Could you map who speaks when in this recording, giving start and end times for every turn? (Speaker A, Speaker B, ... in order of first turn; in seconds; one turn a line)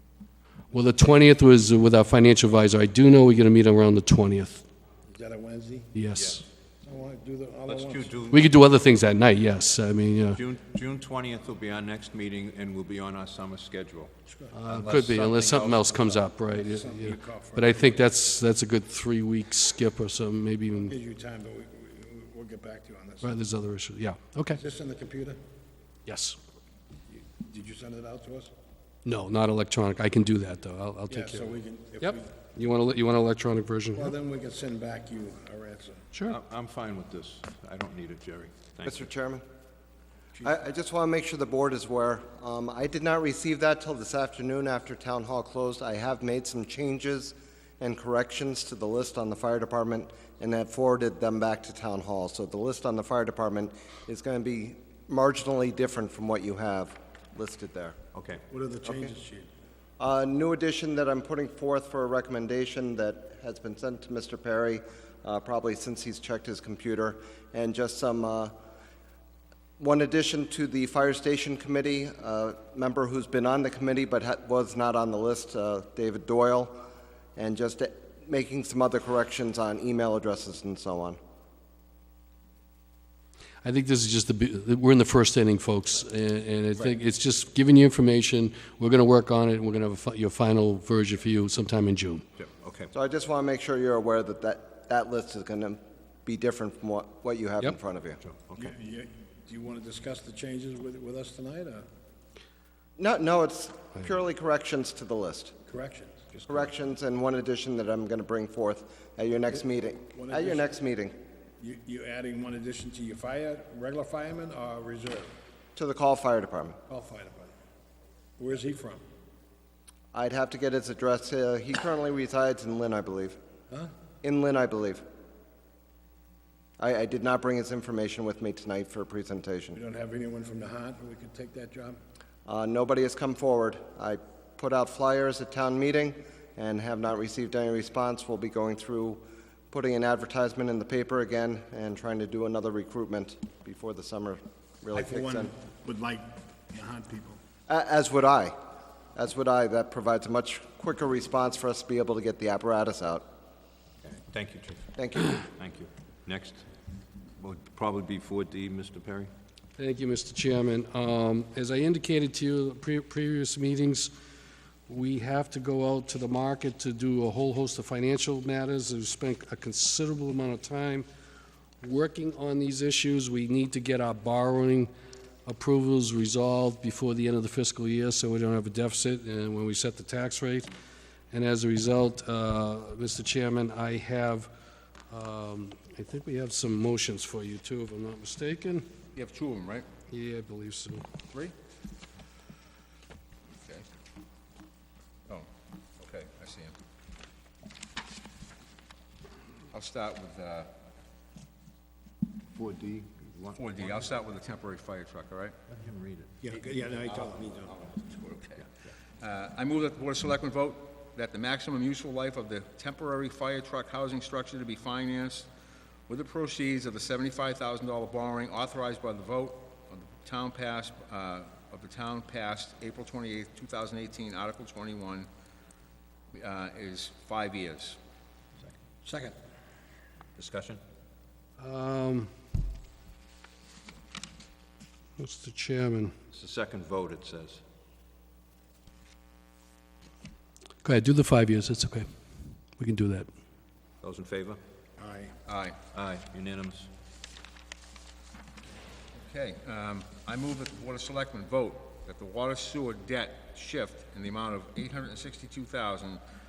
Speaker A: 0.7-4.6
Speaker B: 5.1-5.9
Speaker A: 5.9-6.4
Speaker C: 6.1-6.4
Speaker B: 6.8-8.2
Speaker C: 7.7-8.6
Speaker A: 8.3-10.4
Speaker C: 10.3-14.1
Speaker B: 14.2-14.6
Speaker A: 14.5-20.9
Speaker C: 14.7-16.2
Speaker B: 16.4-18.0
Speaker B: 20.9-23.4
Speaker A: 23.2-24.6
Speaker B: 24.5-25.4
Speaker A: 26.1-26.4
Speaker B: 27.2-28.5
Speaker A: 29.0-34.1
Speaker B: 31.1-32.3
Speaker B: 33.9-36.1
Speaker C: 36.3-39.1
Speaker D: 38.9-39.4
Speaker D: 40.4-58.0
Speaker C: 58.1-58.4
Speaker B: 58.5-59.5
Speaker D: 60.0-68.5
Speaker D: 69.8-76.8
Speaker D: 77.3-81.2
Speaker A: 83.6-92.2
Speaker C: 92.4-92.9
Speaker D: 92.9-98.2
Speaker C: 98.2-98.7
Speaker B: 98.5-101.8
Speaker D: 103.0-105.5
Speaker B: 105.7-106.3
Speaker D: 106.5-111.1
Speaker B: 110.1-110.7
Speaker B: 111.6-115.3
Speaker D: 115.8-116.8
Speaker B: 116.9-117.5
Speaker B: 118.4-119.0
Speaker D: 120.1-123.4
Speaker D: 124.2-125.0
Speaker D: 126.8-129.8
Speaker B: 129.7-132.0
Speaker D: 132.4-145.5
Speaker B: 144.9-147.4
Speaker D: 147.7-148.5
Speaker D: 149.1-153.2
Speaker C: 154.0-154.9
Speaker D: 154.9-155.4
Speaker C: 155.4-156.7
Speaker C: 157.4-159.3
Speaker A: 159.8-164.1
Speaker A: 164.9-171.1
Speaker A: 171.8-174.9
Speaker A: 175.4-180.7
Speaker A: 181.3-184.5
Speaker A: 185.1-188.8
Speaker E: 189.1-189.9
Speaker A: 190.1-191.1
Speaker E: 196.0-196.8
Speaker E: 199.7-200.7
Speaker C: 202.5-204.1
Speaker E: 203.5-205.5
Speaker C: 205.7-206.3
Speaker B: 206.4-207.8
Speaker E: 207.7-208.7
Speaker E: 209.2-215.5
Speaker E: 216.1-225.3
Speaker E: 226.3-228.0
Speaker B: 229.0-229.3
Speaker C: 230.4-230.8
Speaker A: 231.6-232.3
Speaker A: 235.2-236.1
Speaker C: 236.3-237.6
Speaker A: 240.8-243.3
Speaker C: 244.0-244.6
Speaker B: 245.0-245.3
Speaker E: 245.4-245.8
Speaker C: 245.9-246.9
Speaker E: 249.1-256.2